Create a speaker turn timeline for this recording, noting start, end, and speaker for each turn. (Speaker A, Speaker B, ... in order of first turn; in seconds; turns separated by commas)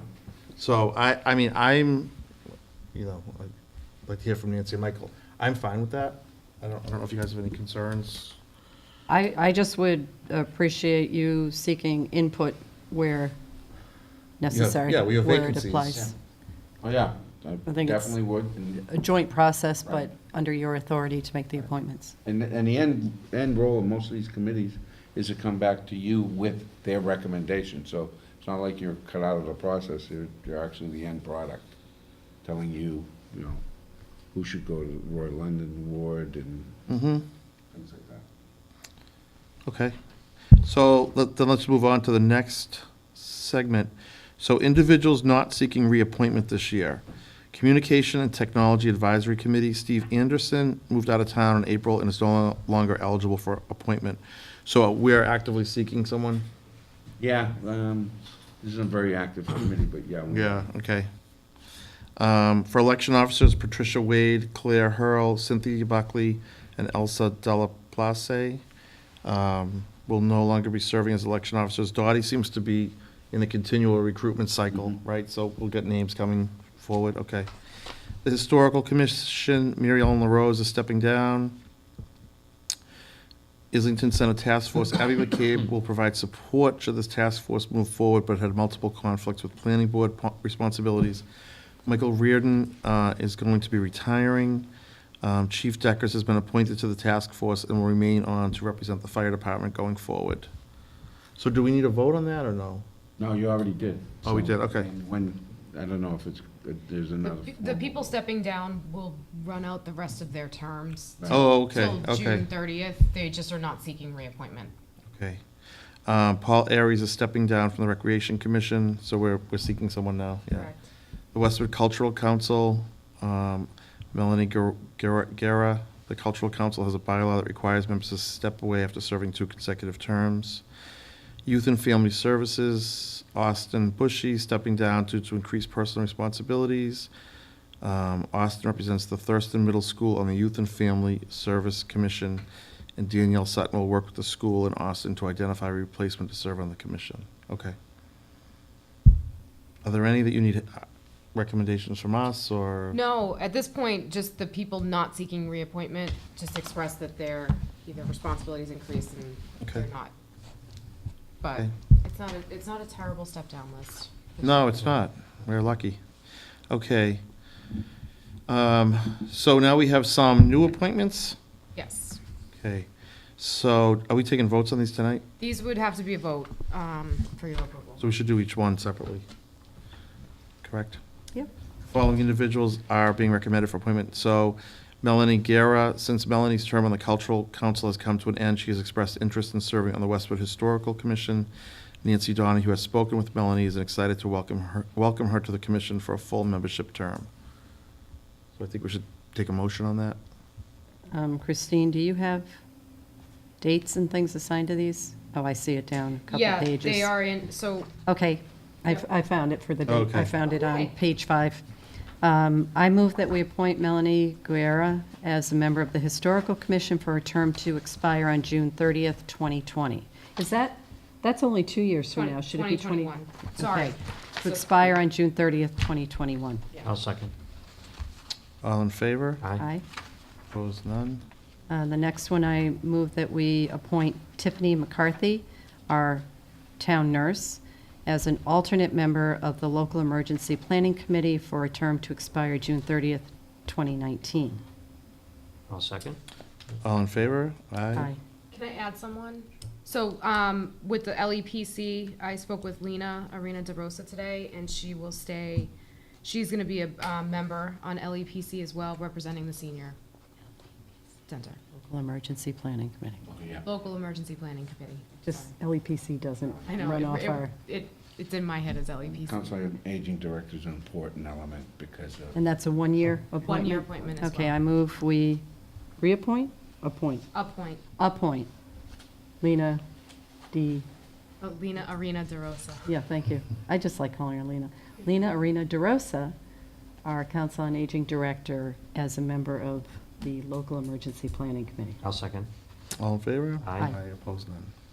Speaker A: 0.6-2.1, Speaker A: 2.9-3.5, Speaker A: 4.1-8.4, Speaker B: 9.1-13.4, Speaker B: 14.4-16.1, Speaker A: 14.5-16.1, Speaker C: 16.8-18.9, Speaker B: 17.7-18.1, Speaker B: 18.9-22.1, Speaker C: 22.2-31.7, Speaker C: 32.4-33.6, Speaker C: 34.3-36.9, Speaker A: 36.9-37.3, Speaker C: 37.7-38.3, Speaker A: 39.7-40.0, Speaker A: 40.6-56.5, Speaker C: 57.2-60.6, Speaker A: 60.3-61.1, Speaker A: 62.2-68.6, Speaker A: 69.2-77.5, Speaker A: 78.2-81.6, Speaker A: 83.7-91.2, Speaker A: 91.9-94.7, Speaker A: 95.2-100.5, Speaker A: 101.4-102.8, Speaker C: 103.2-108.1, Speaker A: 104.2-104.9, Speaker D: 107.2-114.7, Speaker C: 111.2-111.5, Speaker A: 111.3-112.5, Speaker A: 115.1-115.4, Speaker A: 116.1-120.7, Speaker D: 120.5-120.8, Speaker A: 121.3-130.6, Speaker A: 131.5-137.1, Speaker A: 137.8-142.4, Speaker A: 143.0-147.8, Speaker A: 149.8-153.0, Speaker D: 152.9-160.1, Speaker D: 161.4-164.9, Speaker A: 164.4-166.0, Speaker A: 166.7-167.2, Speaker A: 168.5-171.4, Speaker D: 171.8-172.2, Speaker A: 172.6-175.2, Speaker D: 175.4-178.0, Speaker A: 178.0-179.2, Speaker A: 180.6-181.0, Speaker A: 181.9-191.5, Speaker A: 192.0-197.3, Speaker A: 198.6-200.2, Speaker B: 201.1-202.5, Speaker B: 203.6-207.1, Speaker D: 206.3-207.9, Speaker B: 208.1-211.6, Speaker A: 209.9-210.3, Speaker D: 210.5-210.9, Speaker B: 212.2-226.7, Speaker D: 222.2-225.0, Speaker E: 226.8-227.3, Speaker A: 228.6-229.4, Speaker E: 229.4-229.7, Speaker B: 229.6-229.8, Speaker A: 230.5-231.2, Speaker B: 231.7-236.3, Speaker B: 236.8-244.6, Speaker E: 245.7-246.2, Speaker A: 246.8-248.1, Speaker D: 248.5-255.7, Speaker D: 256.2-260.0, Speaker D: 261.3-261.6, Speaker B: 261.8-263.2, Speaker C: 263.3-263.6, Speaker D: 263.6-265.5, Speaker B: 265.3-267.5, Speaker D: 266.7-269.6, Speaker C: 269.1-272.4, Speaker B: 272.4-275.4, Speaker D: 273.4-274.6, Speaker B: 276.0-277.3, Speaker D: 277.3-277.8, Speaker B: 278.0-278.5, Speaker B: 279.4-279.8, Speaker B: 280.5-280.9, Speaker D: 281.4-282.9, Speaker B: 282.9-286.3, Speaker B: 287.0-292.0, Speaker E: 292.0-292.5, Speaker A: 293.0-294.7, Speaker E: 293.6-293.9